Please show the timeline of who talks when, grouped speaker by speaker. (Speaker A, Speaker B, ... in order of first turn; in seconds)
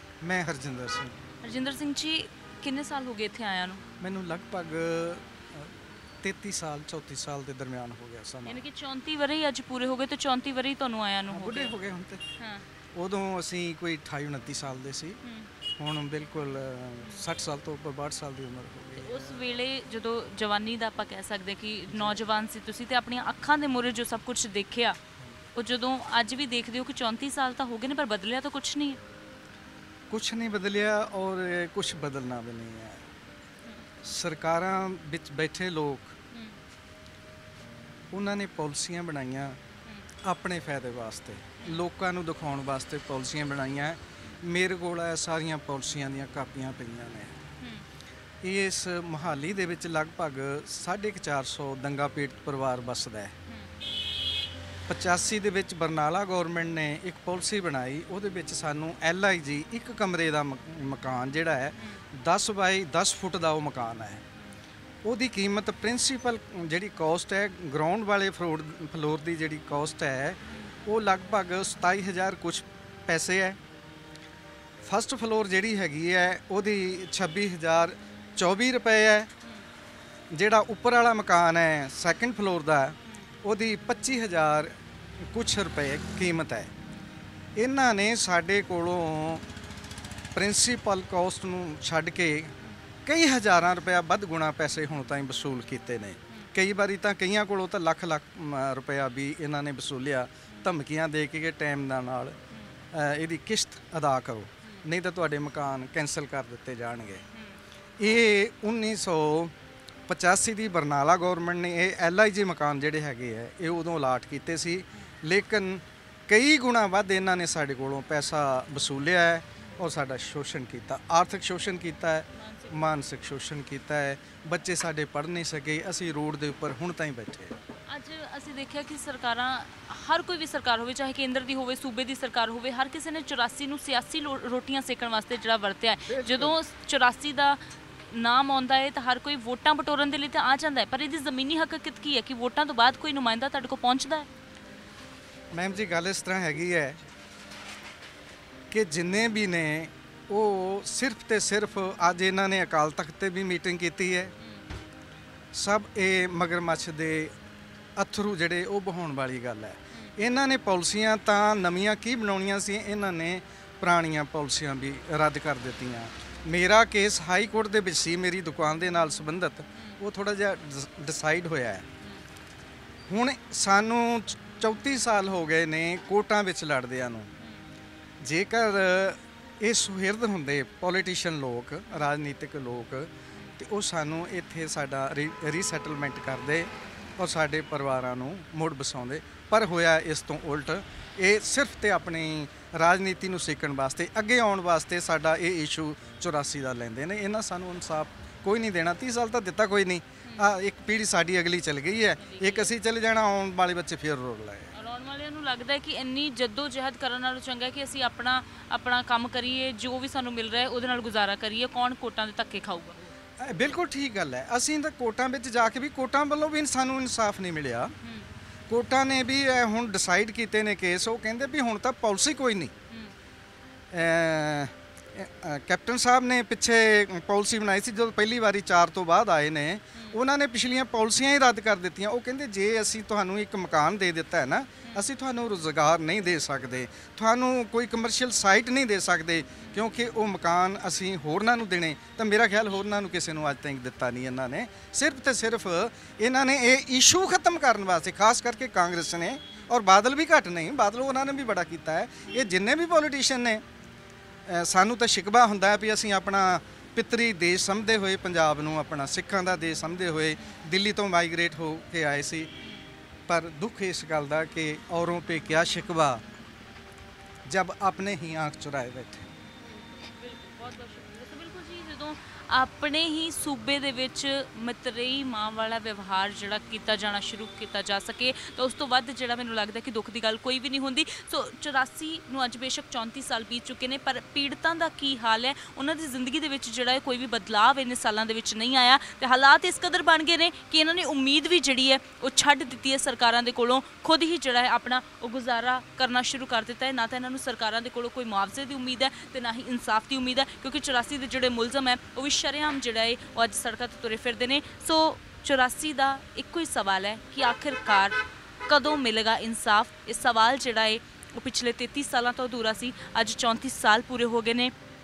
Speaker A: 0.2-1.1, 4.0-8.6, 11.3-12.2, 12.9-15.2, 15.8-19.4, 21.9-22.2, 30.1-33.0, 34.0-36.1, 38.1-39.6, 40.2-47.3, 48.4-53.3, 54.9-64.2, 65.0-73.6, 74.8-79.3, 80.3-84.7, 85.3-86.7, 87.5-89.4, 90.3-92.5, 93.0-102.3, 102.9-107.2, 108.0-109.5, 110.1-127.5, 136.1-136.5, 145.5-147.0, 148.7-154.3, 155.5-157.3, 158.0-171.8, 173.1-177.3, 178.2-204.7, 213.4-217.9, 218.7-222.7, 223.9-253.6, 254.5-262.5, 263.3-266.2, 267.4-269.3
Speaker B: 1.4-3.8, 8.4-11.7, 12.4-12.7, 15.2-15.5, 18.9-25.0, 25.5-29.0, 36.3-36.6, 47.6-47.9, 53.5-53.8, 70.5-70.7, 83.0-83.3, 102.5-102.8, 107.3-107.6, 122.3-122.8, 127.9-144.3, 177.4-177.7, 202.2-202.7, 204.7-213.0, 269.6-314.7